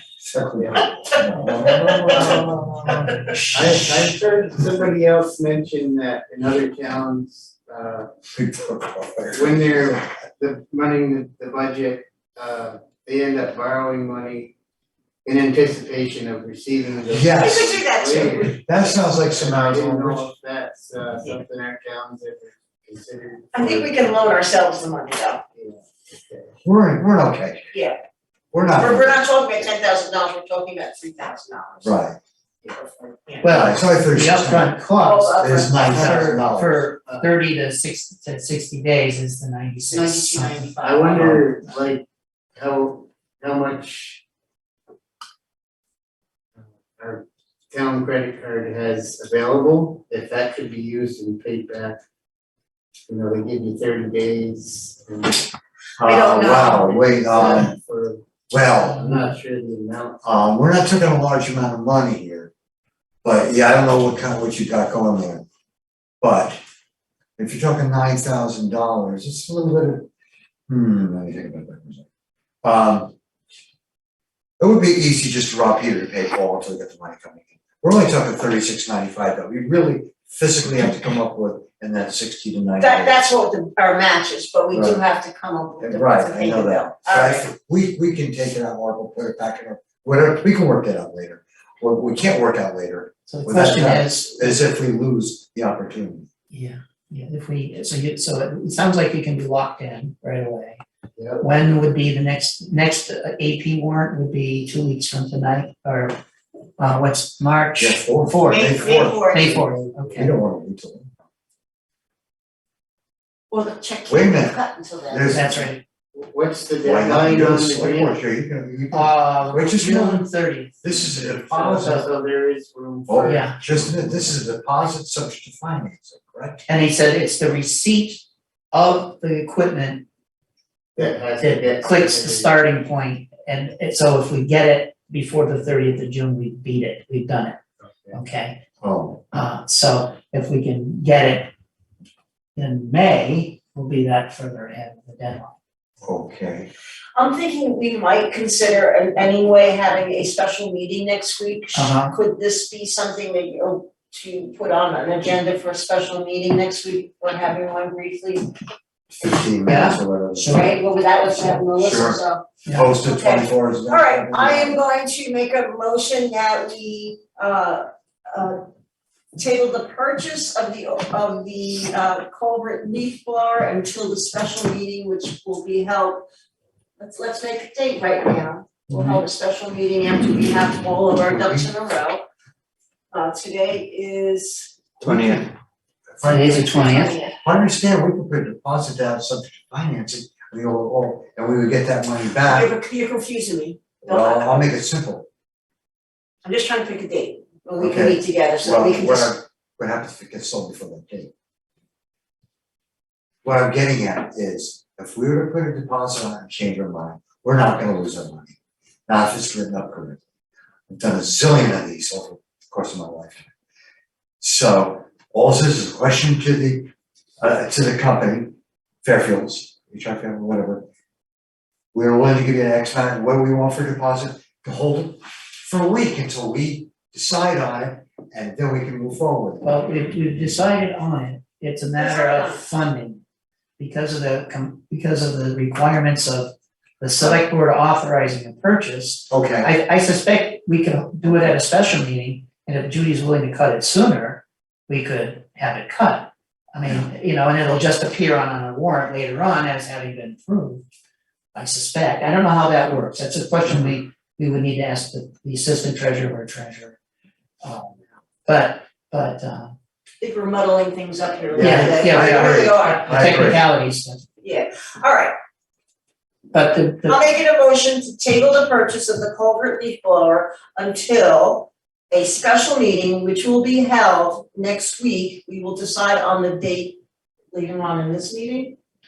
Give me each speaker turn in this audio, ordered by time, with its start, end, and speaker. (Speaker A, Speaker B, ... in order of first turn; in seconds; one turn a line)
Speaker A: 0.2-3.2
Speaker B: 0.6-0.9
Speaker C: 1.7-2.4
Speaker B: 2.1-2.4
Speaker B: 3.5-8.1
Speaker A: 8.3-10.1
Speaker B: 9.3-14.6
Speaker B: 15.2-24.0
Speaker A: 17.1-17.8
Speaker C: 17.4-18.8
Speaker A: 18.5-20.3
Speaker C: 23.5-25.4
Speaker B: 25.6-26.6
Speaker A: 26.6-27.7
Speaker A: 28.5-29.1
Speaker C: 28.8-31.9
Speaker A: 31.8-32.2
Speaker C: 32.6-33.5
Speaker D: 33.4-41.5
Speaker A: 33.4-34.8
Speaker C: 35.0-36.1
Speaker A: 35.3-36.9
Speaker C: 39.9-41.2
Speaker B: 40.7-42.0
Speaker B: 42.6-44.2
Speaker B: 46.6-52.0
Speaker B: 53.1-55.5
Speaker A: 56.0-57.7
Speaker C: 56.0-57.0
Speaker B: 56.7-58.2
Speaker A: 58.5-59.1
Speaker B: 58.8-60.2
Speaker D: 58.8-59.3
Speaker A: 60.2-62.5
Speaker A: 63.2-65.5
Speaker A: 66.2-66.6
Speaker A: 67.4-70.1
Speaker A: 70.7-72.0
Speaker A: 72.6-73.1
Speaker A: 74.6-83.2
Speaker C: 82.8-87.5
Speaker A: 84.7-85.0
Speaker A: 85.8-96.3
Speaker D: 93.3-94.6
Speaker D: 96.5-100.8
Speaker B: 101.2-101.5
Speaker D: 101.4-106.2
Speaker D: 106.8-108.7
Speaker A: 107.8-111.1
Speaker C: 108.5-109.7
Speaker D: 109.3-110.4
Speaker C: 113.5-115.4
Speaker A: 114.1-115.7
Speaker D: 115.3-115.8
Speaker B: 116.1-118.2
Speaker A: 116.8-120.3
Speaker D: 118.9-120.8
Speaker A: 120.8-122.1
Speaker B: 120.9-124.3
Speaker D: 121.8-122.0
Speaker A: 123.1-126.6
Speaker D: 123.2-123.6
Speaker D: 126.7-130.1
Speaker B: 131.0-132.6
Speaker D: 131.0-137.6
Speaker B: 137.9-138.2
Speaker D: 138.1-138.6
Speaker A: 138.8-139.2
Speaker D: 139.3-141.5
Speaker D: 142.6-145.6
Speaker A: 146.0-146.7
Speaker C: 147.2-158.5
Speaker D: 151.8-152.1
Speaker A: 159.1-160.6
Speaker D: 159.7-160.7
Speaker C: 160.5-162.5
Speaker A: 161.8-162.2
Speaker A: 162.7-164.8
Speaker C: 163.0-168.6
Speaker C: 169.3-176.3
Speaker C: 177.0-182.2
Speaker D: 178.9-179.2
Speaker A: 181.2-181.7
Speaker C: 183.1-184.8
Speaker A: 185.0-185.5
Speaker A: 186.1-186.9
Speaker D: 186.2-187.2
Speaker C: 186.6-187.4
Speaker A: 187.4-192.7
Speaker C: 192.5-194.7
Speaker A: 194.0-195.3
Speaker C: 196.4-199.3
Speaker A: 197.8-201.3
Speaker A: 203.4-208.6
Speaker A: 209.1-210.2
Speaker A: 210.9-213.5
Speaker A: 214.4-220.8
Speaker A: 221.9-229.7
Speaker D: 229.6-233.2
Speaker C: 232.0-232.7
Speaker D: 233.8-250.9
Speaker A: 239.3-239.7
Speaker D: 251.5-257.0
Speaker D: 257.6-259.7
Speaker C: 260.2-263.2
Speaker A: 261.5-263.6
Speaker D: 261.6-264.2
Speaker C: 264.4-265.4
Speaker D: 266.5-267.2
Speaker C: 267.1-277.0
Speaker C: 277.5-278.8